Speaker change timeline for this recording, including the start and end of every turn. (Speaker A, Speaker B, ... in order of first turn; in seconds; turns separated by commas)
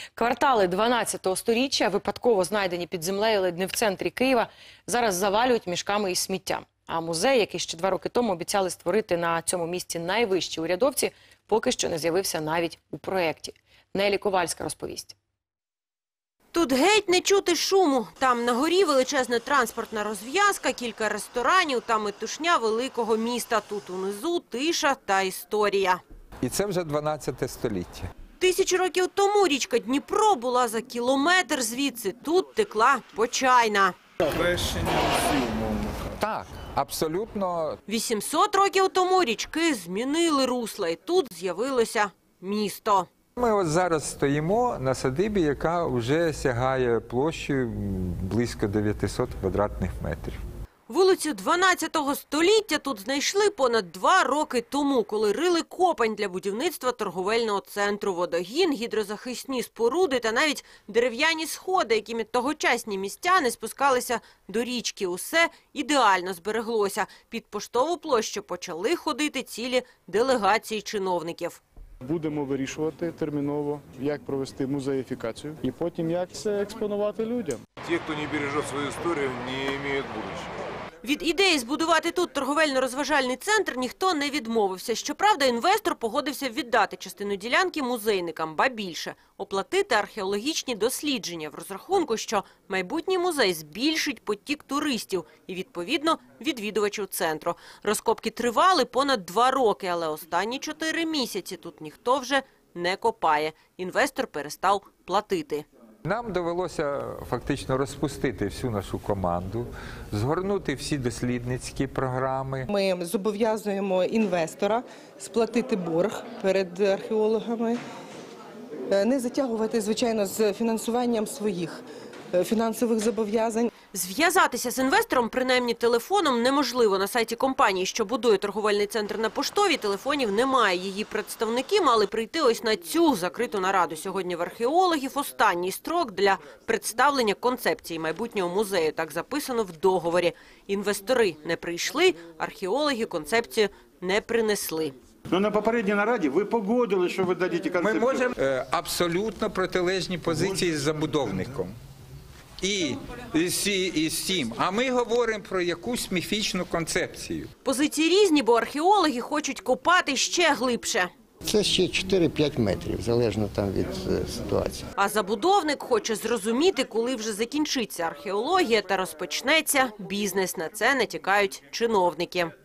Speaker A: 0.1-15.1, Speaker B: 16.5-26.0, Speaker C: 26.4-28.1, Speaker B: 28.4-34.0, Speaker D: 34.4-35.7, Speaker C: 36.2-37.8, Speaker B: 37.9-43.1, Speaker C: 43.4-50.4, Speaker B: 50.9-71.6, Speaker E: 72.0-77.6, Speaker D: 77.8-80.5, Speaker B: 81.0-105.7, Speaker C: 106.0-112.7, Speaker F: 112.7-117.8, Speaker F: 118.9-121.8, Speaker F: 122.3-123.7, Speaker B: 123.9-144.9, Speaker G: 145.3-148.3, Speaker C: 147.8-151.7, Speaker C: 152.6-157.5, Speaker B: 157.6-161.1, Speaker H: 161.4-164.8, Speaker B: 165.0-172.5